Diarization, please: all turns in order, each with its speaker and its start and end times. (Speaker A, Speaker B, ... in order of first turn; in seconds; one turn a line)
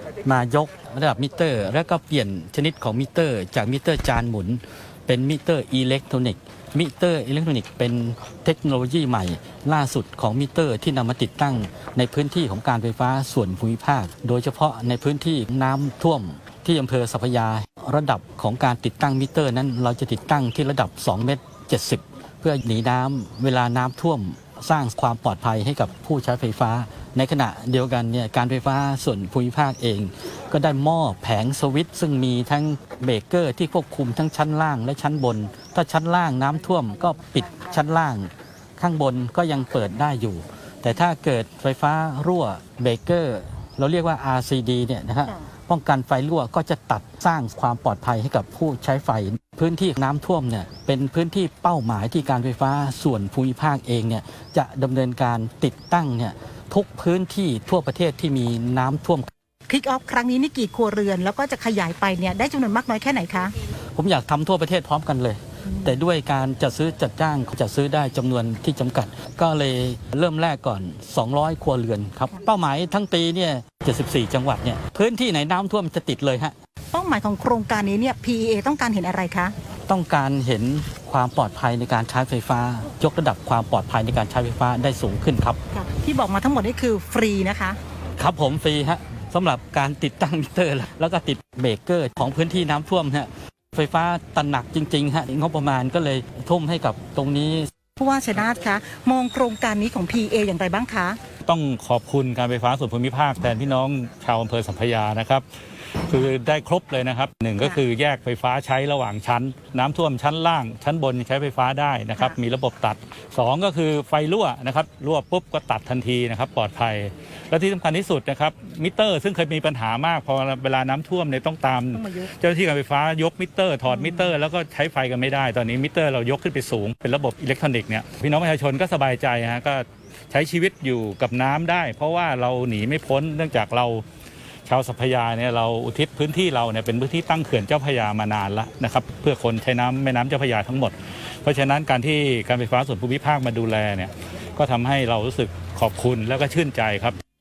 Speaker A: 0.2-59.3
Speaker B: 59.7-63.5
Speaker A: 64.0-76.5
Speaker B: 76.9-79.5
Speaker A: 79.9-85.6
Speaker B: 85.7-87.8
Speaker A: 88.2-97.7
Speaker B: 98.0-101.2
Speaker C: 101.5-105.5
Speaker C: 106.0-134.1
Speaker B: 122.0-122.3
Speaker B: 123.9-124.3
Speaker C: 134.7-147.2